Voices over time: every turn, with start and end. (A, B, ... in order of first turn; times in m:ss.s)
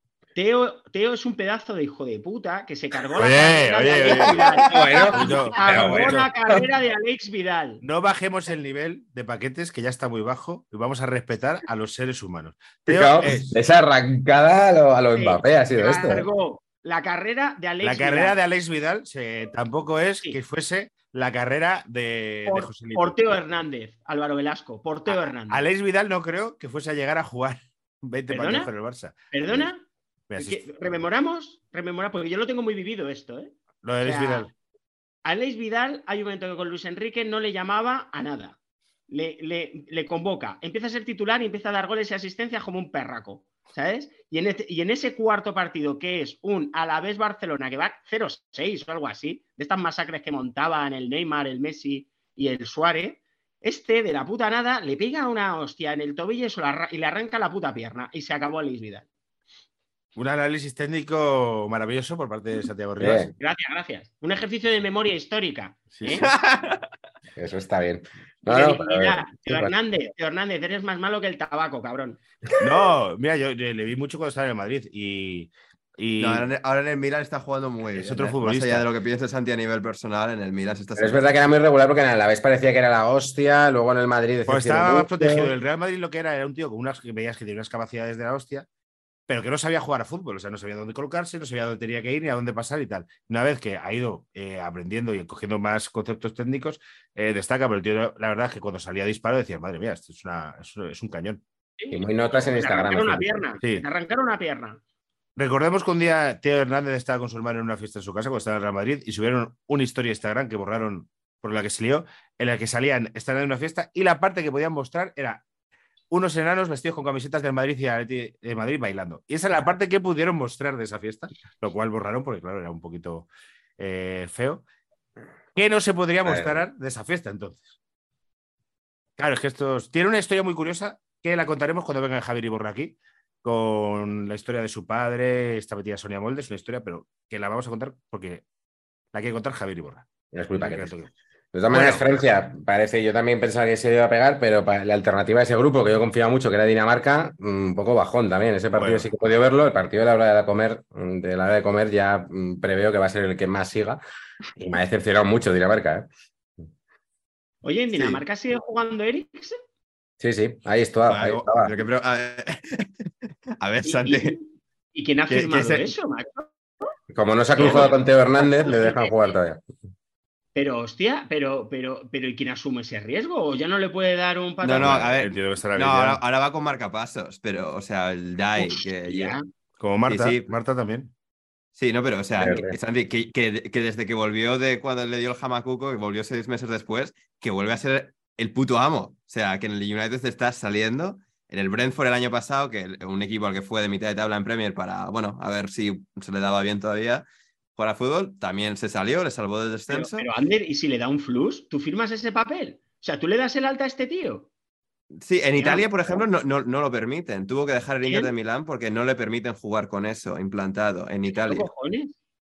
0:00.4-0:07.8 A
0:03.2-0:04.5 B
0:04.6-0:06.6 C
0:05.1-0:06.3 B
0:07.8-0:13.6 B
0:12.9-0:16.3 C
0:15.1-0:18.4 A
0:17.8-0:23.2 B
0:22.5-0:25.7 A
0:25.1-0:29.7 B
0:28.3-0:28.7 A
0:29.3-0:29.8 A
0:30.3-0:30.7 B
0:30.4-0:34.5 A
0:33.8-0:34.5 B
0:35.2-0:38.6 A
0:39.1-0:59.1 A
1:00.2-1:03.3 B
1:03.0-1:03.3 C
1:03.4-1:06.3 A
1:06.0-1:06.3 B
1:06.2-1:06.8 D
1:07.4-1:09.7 C
1:08.5-1:12.2 A
1:12.6-1:16.5 B
1:16.2-1:21.3 D
1:18.0-1:18.9 B
1:21.0-1:25.5 C
1:24.5-1:28.7 B
1:29.3-1:41.4 B
1:41.8-1:44.8 A
1:41.9-1:43.3 C
1:45.4-1:55.4 B
1:56.1-2:04.6 B
2:05.6-2:07.8 B
2:06.2-2:06.6 C
2:09.2-2:18.4 B
2:19.1-2:21.1 B
2:20.3-2:20.9 C
2:21.5-2:34.0 C
2:21.7-2:22.1 B
2:28.8-2:29.1 B
2:34.6-2:36.1 C
2:37.6-2:39.6 A
2:37.9-2:38.2 D
2:40.2-2:41.7 C
2:41.1-2:43.1 D
2:43.6-2:44.4 D
2:43.8-2:46.5 A
2:45.3-2:45.9 D
2:47.1-2:49.6 C
2:47.6-2:49.4 A
2:47.6-2:47.9 D
2:50.6-2:55.0 A
2:54.6-2:59.4 D
2:54.8-2:56.2 B
2:58.6-2:59.4 A
2:59.8-3:01.1 B
3:00.1-3:00.5 D
3:01.8-3:17.2 D
3:02.4-3:02.8 C
3:17.8-3:20.3 D
3:19.9-3:24.5 A
3:25.2-3:31.7 D
3:25.6-3:26.2 A
3:28.0-3:28.3 A
3:31.3-3:32.2 A